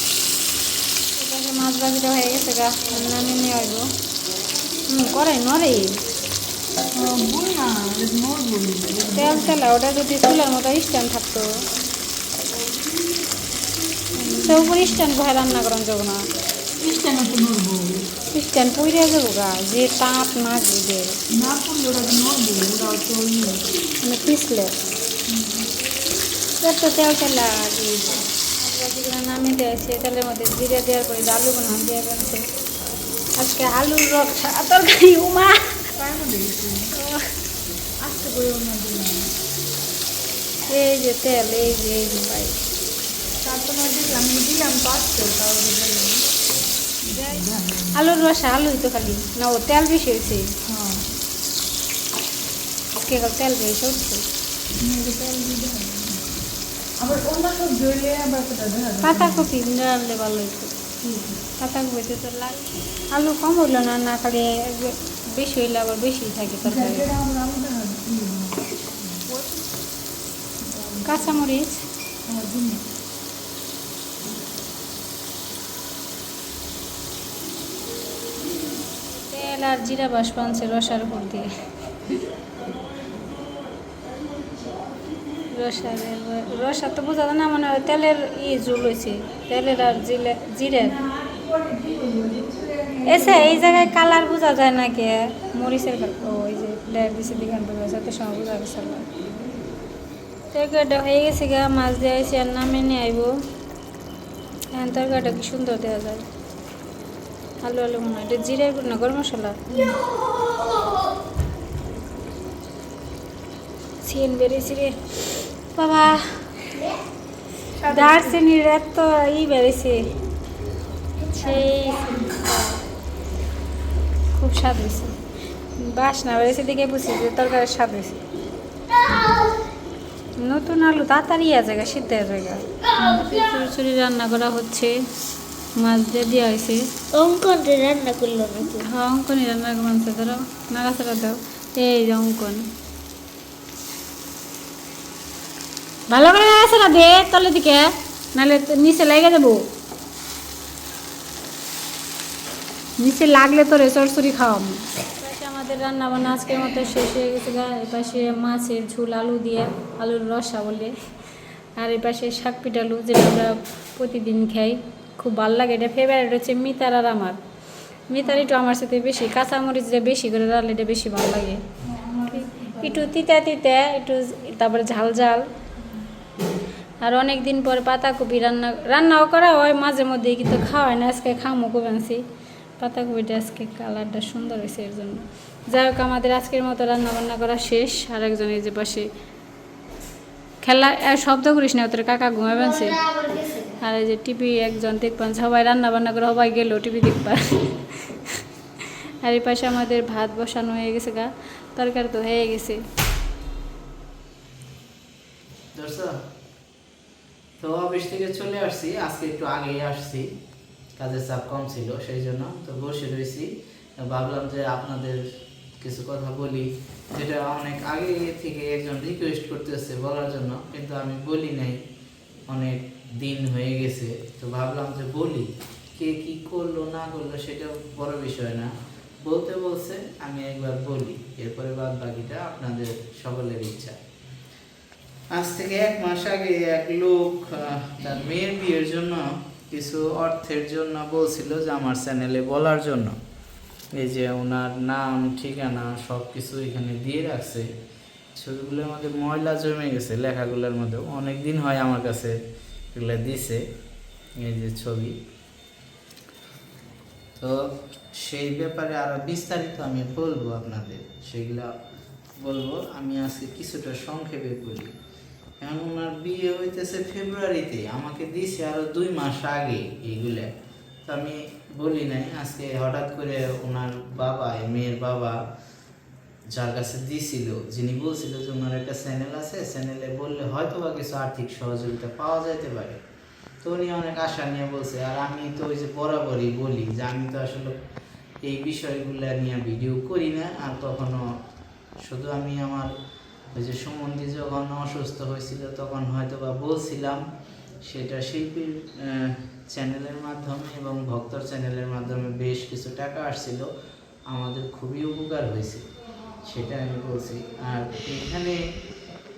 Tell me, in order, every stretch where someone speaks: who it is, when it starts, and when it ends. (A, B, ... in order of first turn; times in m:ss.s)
0:01.2-0:03.9 A
0:04.9-0:06.0 A
0:06.9-0:09.5 B
0:09.1-0:11.5 A
0:14.3-0:16.3 A
0:16.8-0:18.0 B
0:18.3-0:21.2 A
0:21.4-0:23.6 B
0:24.0-0:24.8 A
0:25.3-0:25.6 B
0:26.6-0:32.4 A
0:33.4-0:35.7 A
0:36.0-0:36.9 B
0:36.9-0:37.2 A
0:38.0-0:39.3 B
0:40.7-0:42.6 A
0:43.4-0:46.2 B
0:47.1-0:50.4 A
0:47.3-0:47.9 B
0:50.7-0:51.0 B
0:53.0-0:54.2 A
0:54.8-0:56.1 B
0:57.0-0:59.4 B
0:59.0-1:00.7 A
1:01.0-1:01.3 B
1:01.6-1:02.6 A
1:03.1-1:07.1 A
1:06.7-1:09.6 B
1:10.7-1:11.2 B
1:11.0-1:11.8 A
1:12.3-1:12.8 B
1:19.3-1:21.5 A
1:25.5-1:31.0 A
1:31.3-1:33.4 B
1:33.0-1:39.0 A
1:33.2-1:33.5 C
1:40.5-1:43.3 A
1:44.7-1:46.2 A
1:47.6-1:49.6 A
1:50.1-1:51.0 C
1:54.0-1:55.0 A
1:55.7-1:56.3 A
1:57.9-1:58.3 B
1:57.9-2:00.1 A
2:01.3-2:02.8 A
2:04.3-2:05.1 A
2:05.8-2:08.2 A
2:09.0-2:09.5 C
2:10.4-2:14.9 A
2:15.8-2:16.8 A
2:17.1-2:18.8 C
2:18.7-2:22.6 A
2:26.1-2:29.6 A
2:33.0-2:40.9 A
2:41.8-2:47.4 A
2:48.1-2:51.6 A
2:51.9-2:53.0 B
2:52.4-2:55.4 A
2:57.0-3:02.2 A
3:02.8-3:09.1 A
3:10.6-3:13.0 A
3:13.0-3:13.7 C
3:13.8-3:18.4 A
3:19.2-3:22.8 A
3:25.7-3:26.1 D
3:27.6-3:30.2 D
3:31.0-3:33.5 D
3:34.0-3:35.2 D
3:35.8-3:41.8 D
3:42.5-3:48.7 D
3:49.2-3:54.0 D
3:55.3-4:03.1 D
4:03.9-4:07.6 D
4:08.4-4:12.4 D
4:12.9-4:13.6 D
4:14.4-4:15.1 D
4:18.2-4:21.7 D
4:22.4-4:24.9 D
4:25.6-4:30.5 D
4:31.1-4:35.4 D
4:36.5-4:43.0 D
4:43.6-4:47.7 D
4:48.4-4:51.2 D
4:52.0-4:52.9 D
4:53.5-4:57.2 D
4:57.8-5:03.6 D
5:04.3-5:05.8 D
5:06.4-5:08.6 D